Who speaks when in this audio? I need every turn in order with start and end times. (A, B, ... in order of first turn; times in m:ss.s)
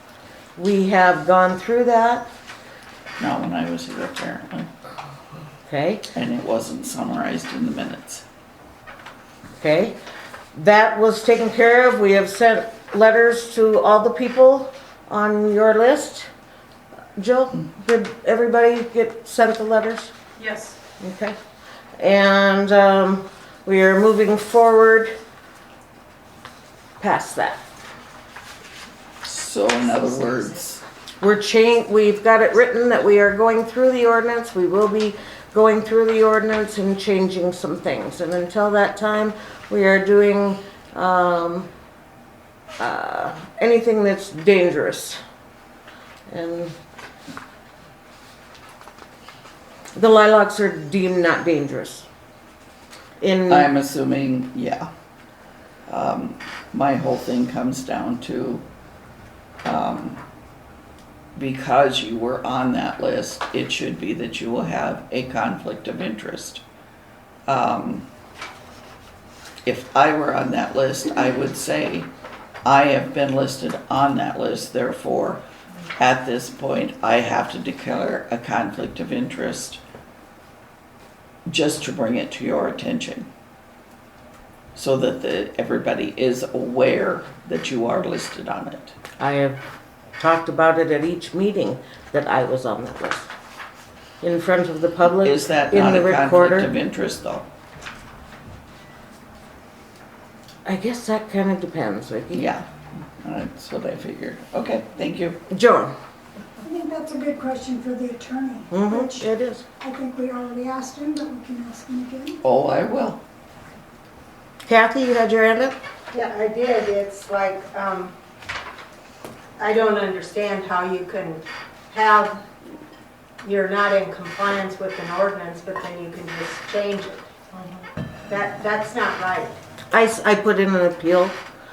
0:00.6-0:02.3 A
0:03.2-0:04.7 B
0:05.7-0:06.1 A
0:06.1-0:08.2 B
0:09.6-0:10.0 A
0:10.5-0:16.3 A
0:17.2-0:20.1 A
0:21.0-0:21.4 A
0:22.0-0:25.1 A
0:27.0-0:27.6 A
0:29.2-0:30.8 B
0:31.2-0:41.7 A
0:42.8-0:45.2 A
0:46.3-0:46.7 A
0:50.0-0:52.0 A
0:53.2-0:53.7 A
0:53.5-0:54.9 B
0:55.9-0:58.6 B
0:59.6-1:00.2 B
1:01.4-1:06.6 B
1:07.5-1:08.1 B
1:09.6-1:12.1 B
1:12.6-1:15.4 B
1:16.0-1:19.8 B
1:21.5-1:23.3 B
1:24.7-1:29.0 B
1:29.2-1:29.6 A
1:30.2-1:33.3 A
1:34.2-1:36.7 A
1:35.2-1:37.5 B
1:40.6-1:42.5 A
1:42.3-1:42.6 B
1:43.2-1:45.4 B
1:45.5-1:45.9 A
1:46.6-1:49.2 C
1:48.7-1:49.6 A
1:49.8-1:52.4 C
1:52.4-1:53.2 B
1:54.6-1:55.8 A
1:56.1-1:58.1 D
1:59.6-2:02.4 D
2:03.4-2:07.7 D
2:08.3-2:09.5 D
2:09.9-2:11.4 A